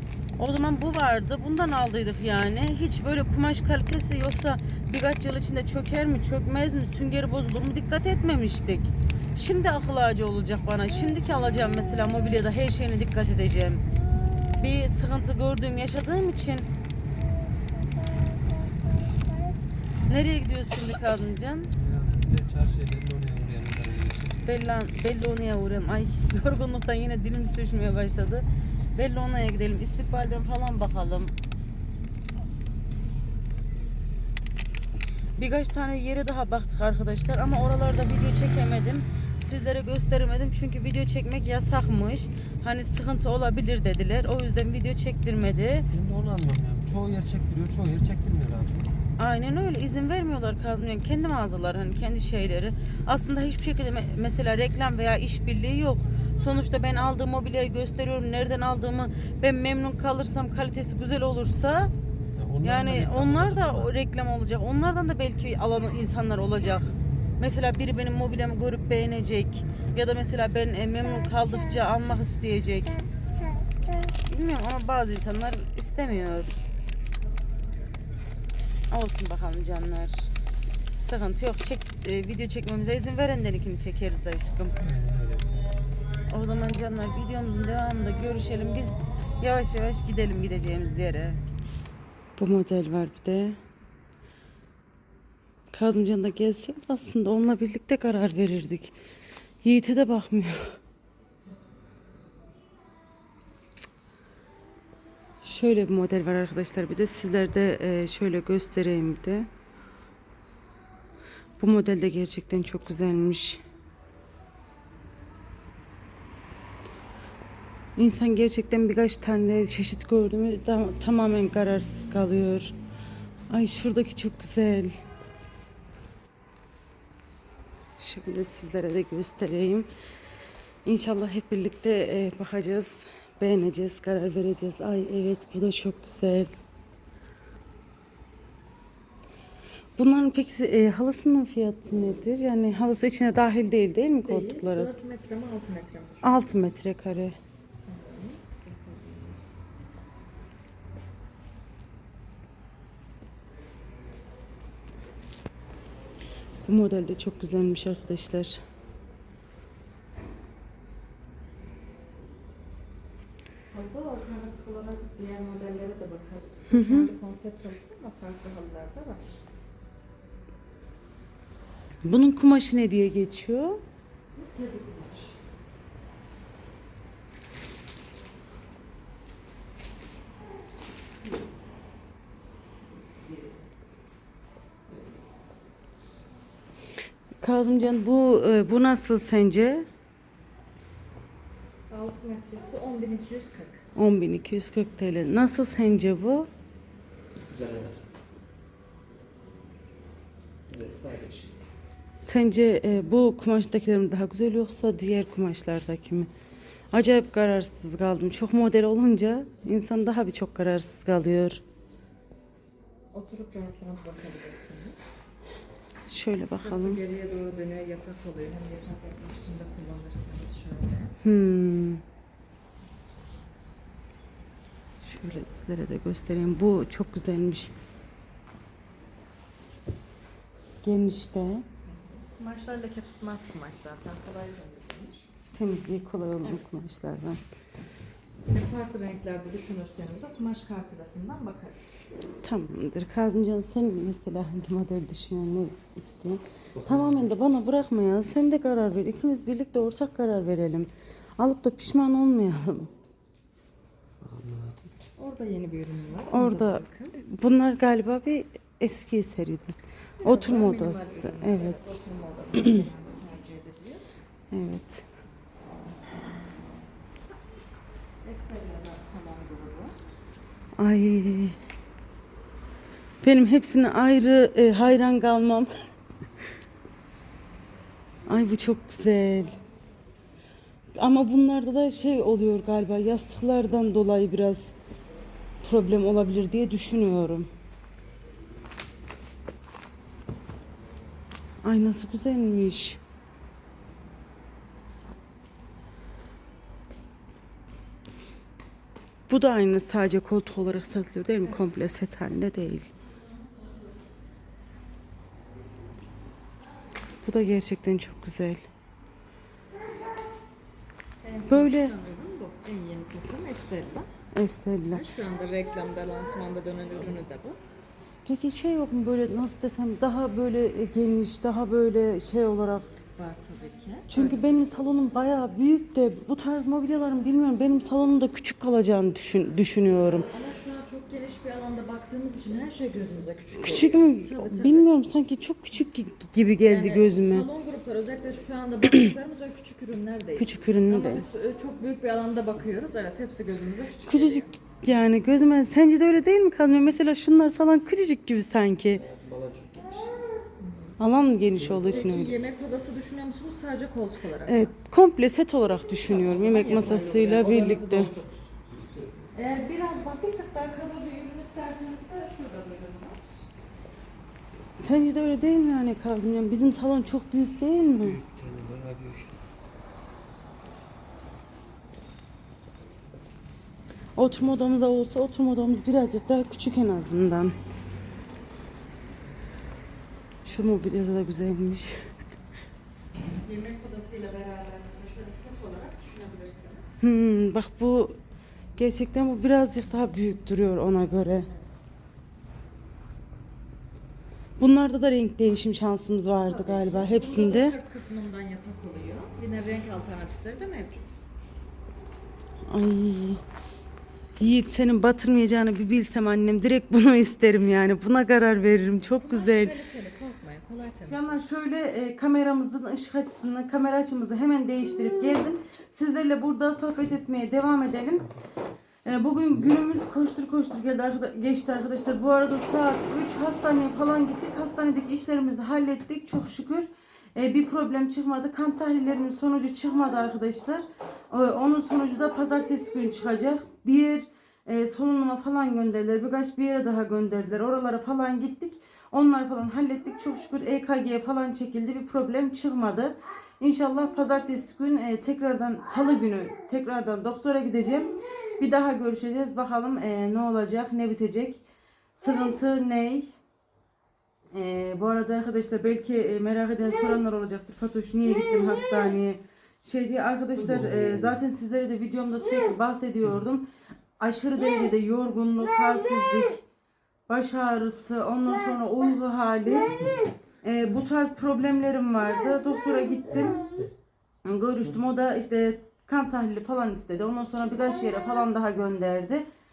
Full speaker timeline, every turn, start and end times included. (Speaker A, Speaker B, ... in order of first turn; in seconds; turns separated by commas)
Speaker A: 0.4-13.8, Speaker A: 14.6-16.7, Speaker A: 20.1-21.7, Speaker B: 21.7-24.5, Speaker A: 24.4-31.3, Speaker A: 35.4-45.9, Speaker B: 45.9-48.9, Speaker A: 49.2-61.9, Speaker B: 62.3-63.9, Speaker A: 62.6-73.0, Speaker A: 74.2-76.6, Speaker A: 78.9-80.3, Speaker A: 81.0-84.8, Speaker B: 84.8-86.0, Speaker A: 86.3-91.4, Speaker A: 92.4-93.6, Speaker A: 95.7-98.9, Speaker A: 99.6-100.8, Speaker A: 105.4-109.5, Speaker A: 111.6-113.6, Speaker A: 118.0-122.7, Speaker A: 123.5-125.0, Speaker A: 128.0-129.9, Speaker A: 130.8-136.5, Speaker A: 140.0-144.9, Speaker C: 144.2-146.5, Speaker A: 146.2-147.3, Speaker C: 147.8-149.4, Speaker A: 156.6-158.6, Speaker C: 163.7-169.4, Speaker A: 166.7-167.1, Speaker A: 172.0-173.8, Speaker C: 174.3-175.4, Speaker A: 187.4-189.9, Speaker C: 191.9-193.8, Speaker A: 193.9-196.5, Speaker B: 197.5-198.1, Speaker B: 200.7-201.6, Speaker A: 202.2-206.3, Speaker A: 206.9-211.6, Speaker C: 213.1-215.2, Speaker A: 216.1-217.0, Speaker C: 216.4-221.2, Speaker A: 221.2-222.0, Speaker A: 225.0-227.7, Speaker A: 230.8-231.7, Speaker C: 231.8-235.3, Speaker A: 235.5-237.4, Speaker C: 238.5-241.9, Speaker A: 242.4-252.9, Speaker B: 246.7-247.3, Speaker B: 254.2-254.9, Speaker C: 255.2-257.2, Speaker A: 256.3-261.9, Speaker C: 260.2-264.1, Speaker A: 264.5-265.0, Speaker C: 268.2-270.0, Speaker A: 270.8-271.6, Speaker A: 273.2-275.7, Speaker A: 278.2-279.6, Speaker A: 280.9-284.7, Speaker A: 285.6-287.5, Speaker A: 291.6-293.0, Speaker A: 299.3-302.9, Speaker A: 307.2-308.6, Speaker C: 311.2-314.1, Speaker A: 311.5-311.9, Speaker A: 314.3-315.0, Speaker C: 314.9-317.6, Speaker A: 318.2-322.9, Speaker C: 323.1-324.5, Speaker A: 324.1-330.3, Speaker C: 330.0-334.9, Speaker A: 333.6-337.5, Speaker C: 336.6-344.6, Speaker A: 340.4-341.3, Speaker A: 344.1-349.0, Speaker B: 348.9-350.2, Speaker C: 350.6-350.9, Speaker A: 351.0-352.3, Speaker B: 351.5-352.2, Speaker C: 351.9-354.7, Speaker A: 354.4-358.1, Speaker C: 356.0-358.5, Speaker B: 358.7-359.2, Speaker C: 359.3-363.3, Speaker A: 364.8-368.2, Speaker B: 368.0-369.4, Speaker A: 374.1-377.5, Speaker A: 380.4-382.0, Speaker C: 383.4-387.0, Speaker A: 387.0-388.2, Speaker A: 388.8-391.5, Speaker C: 391.4-391.7, Speaker A: 394.6-397.7, Speaker C: 396.4-401.1, Speaker A: 402.7-403.4, Speaker A: 404.4-409.7, Speaker C: 409.2-411.4, Speaker A: 411.1-418.2, Speaker A: 419.0-451.6, Speaker A: 452.1-453.3, Speaker A: 454.5-463.7, Speaker B: 460.6-461.4, Speaker A: 464.2-466.6, Speaker A: 467.3-469.9, Speaker A: 470.6-473.7, Speaker A: 474.4-479.4